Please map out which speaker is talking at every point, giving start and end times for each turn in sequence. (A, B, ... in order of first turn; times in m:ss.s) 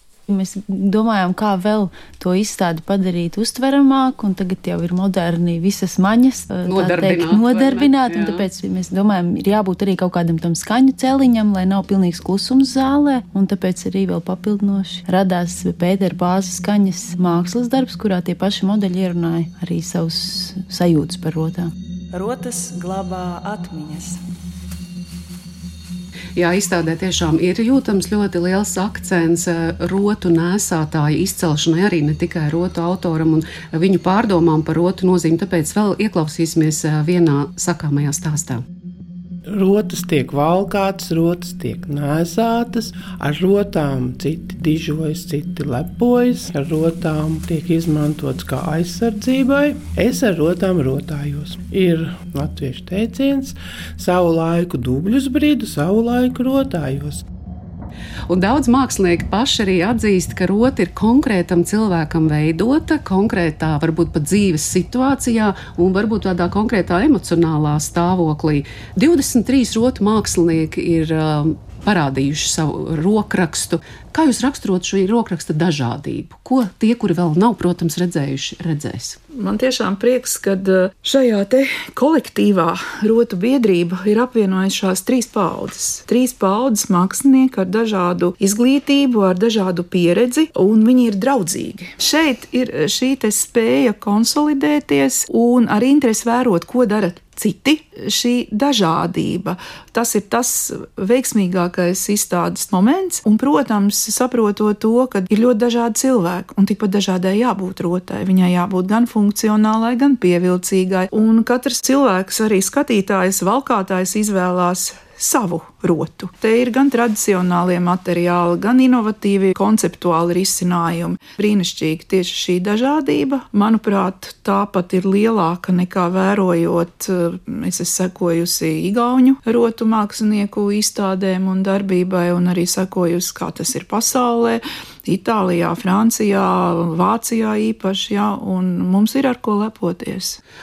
0:00.3-0:21.7 A
0:06.6-0:08.4 B
0:22.1-0:24.2 C
0:26.4-0:38.6 B
0:39.5-0:57.2 D
0:58.3-1:19.2 B
1:19.3-2:20.4 E